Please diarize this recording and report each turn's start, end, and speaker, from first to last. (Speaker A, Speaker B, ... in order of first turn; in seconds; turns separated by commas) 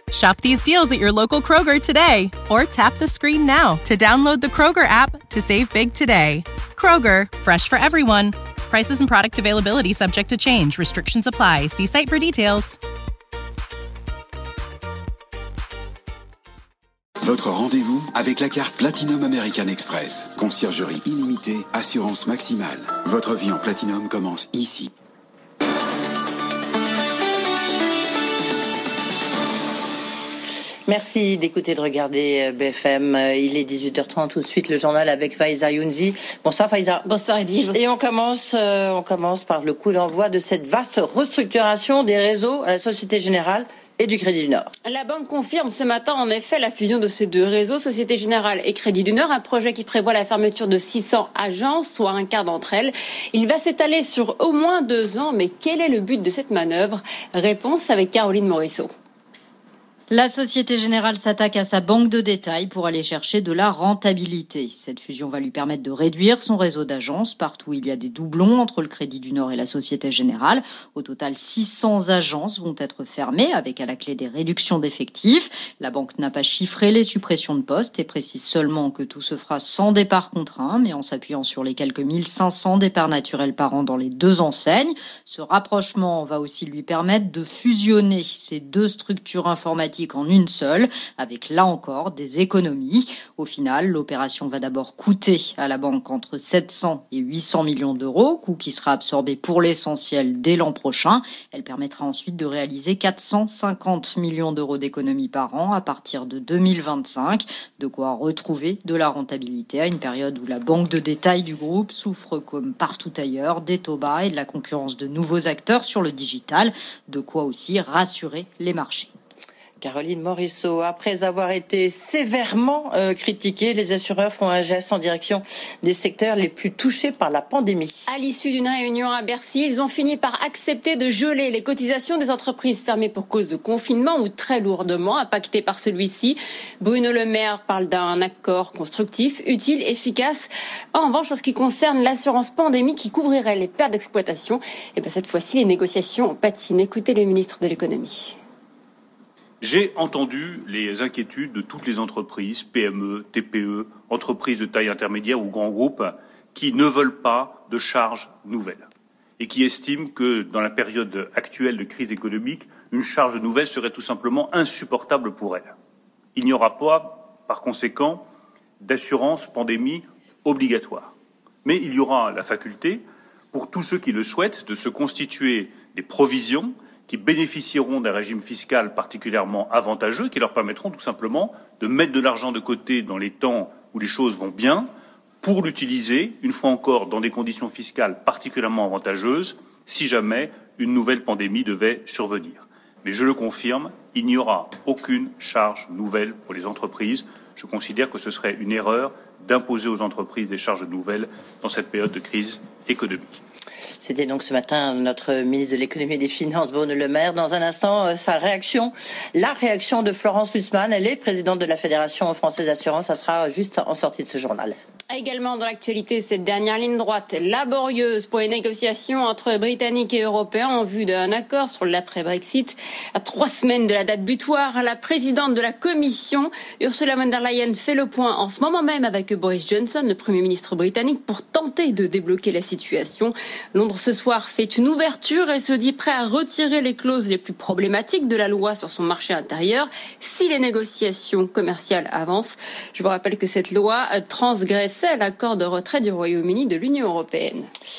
Speaker A: 0.1-12.8, Speaker B: 17.2-24.9, Speaker C: 30.9-37.0, Speaker D: 37.0-37.8, Speaker C: 37.7-44.7, Speaker D: 44.8-58.9, Speaker E: 60.1-119.1, Speaker C: 119.8-128.0, Speaker D: 128.1-148.4, Speaker F: 149.6-165.7, Speaker F: 166.3-168.2, Speaker F: 168.8-171.1, Speaker F: 171.6-184.9, Speaker F: 185.4-203.4, Speaker C: 204.0-214.8, Speaker D: 215.1-247.7